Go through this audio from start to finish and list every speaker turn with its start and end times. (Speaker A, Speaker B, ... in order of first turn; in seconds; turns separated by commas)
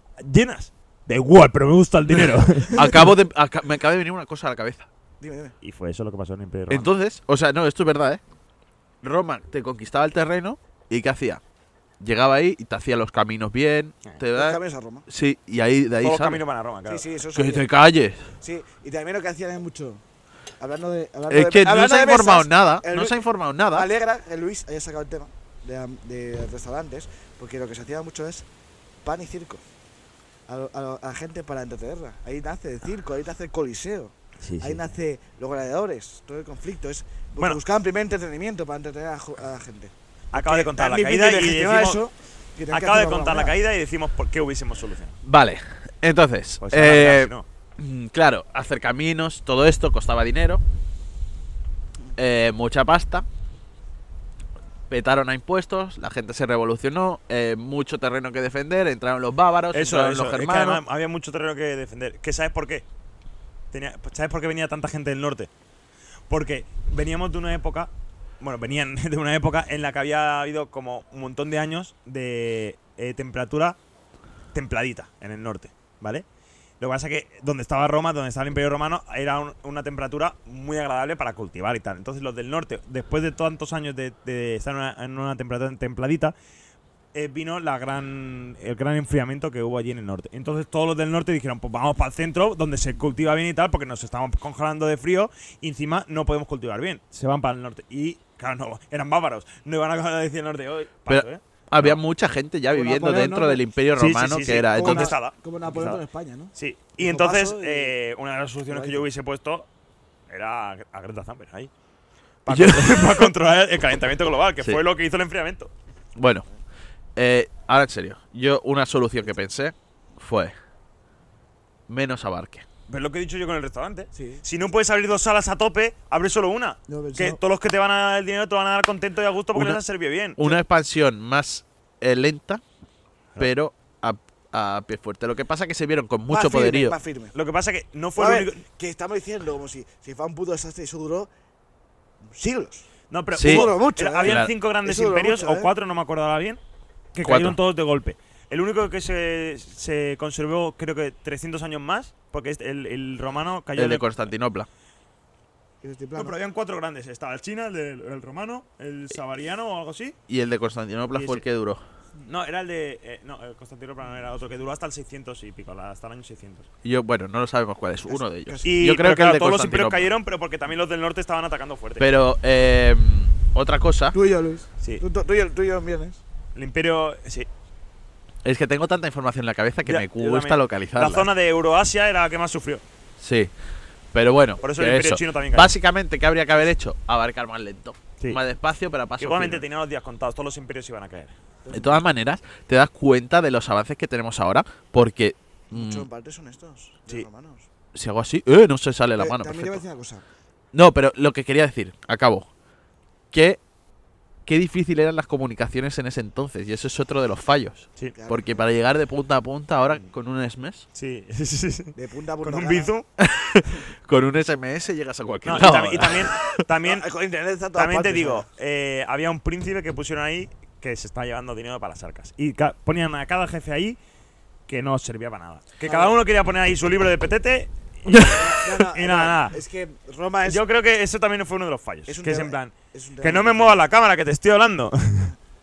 Speaker A: 0.2-2.8, Speaker B: 2.7-4.9, Speaker C: 5.2-5.5, Speaker A: 5.6-6.9, Speaker B: 6.7-8.2, Speaker B: 9.0-11.4, Speaker B: 12.0-16.4, Speaker C: 14.3-15.1, Speaker A: 16.0-17.0, Speaker C: 16.9-17.6, Speaker B: 17.3-18.2, Speaker C: 18.4-20.0, Speaker C: 20.6-23.2, Speaker B: 21.3-23.9, Speaker C: 23.7-28.5, Speaker C: 29.0-29.6, Speaker C: 30.5-43.5, Speaker A: 34.4-34.9, Speaker A: 40.3-42.0, Speaker A: 42.7-45.2, Speaker B: 45.2-50.6, Speaker A: 46.6-47.5, Speaker B: 52.1-53.2, Speaker B: 54.9-60.8, Speaker A: 59.7-62.8, Speaker A: 63.7-65.5, Speaker A: 66.3-73.8, Speaker A: 74.5-76.2, Speaker A: 76.8-86.3, Speaker A: 87.1-102.0, Speaker B: 101.1-105.2, Speaker C: 102.7-103.6, Speaker A: 104.0-106.0, Speaker C: 104.7-107.9, Speaker A: 106.5-109.7, Speaker C: 108.7-109.0, Speaker A: 110.3-111.7, Speaker A: 112.5-115.7, Speaker B: 112.5-113.3, Speaker B: 116.2-116.5, Speaker B: 117.2-120.5, Speaker B: 121.9-122.7, Speaker A: 122.9-130.4, Speaker C: 124.1-124.4, Speaker C: 126.9-127.4, Speaker B: 130.4-132.6, Speaker B: 133.4-137.0, Speaker C: 136.3-137.3, Speaker A: 137.3-138.6, Speaker C: 138.2-141.3, Speaker C: 142.2-142.9, Speaker A: 143.1-146.6, Speaker B: 143.3-143.7, Speaker C: 143.4-145.7, Speaker B: 144.2-144.5, Speaker A: 147.1-154.1, Speaker B: 147.2-147.6, Speaker B: 153.8-154.7, Speaker C: 155.8-156.4, Speaker A: 156.2-160.2, Speaker B: 160.3-161.8, Speaker A: 161.1-161.4, Speaker A: 162.2-166.7, Speaker B: 166.8-170.1, Speaker C: 168.1-168.7, Speaker A: 168.6-172.1, Speaker B: 172.0-174.2, Speaker C: 174.1-176.2, Speaker A: 176.5-177.5, Speaker B: 178.4-181.3, Speaker A: 179.8-182.8, Speaker B: 183.2-183.5, Speaker B: 184.1-189.6, Speaker A: 184.6-185.7, Speaker A: 189.2-191.3, Speaker C: 191.6-192.1, Speaker B: 191.7-196.1, Speaker C: 195.7-197.7, Speaker B: 197.9-199.8, Speaker C: 199.2-200.2, Speaker B: 200.7-202.5, Speaker B: 203.3-203.6, Speaker B: 204.4-210.8, Speaker C: 208.1-208.7, Speaker A: 210.9-213.1, Speaker C: 211.9-212.9, Speaker B: 213.2-216.5, Speaker A: 215.4-217.0, Speaker C: 216.8-218.5, Speaker A: 217.7-224.0, Speaker A: 224.7-229.6, Speaker C: 225.8-226.1, Speaker C: 228.2-230.6, Speaker A: 230.4-235.3, Speaker C: 232.1-233.8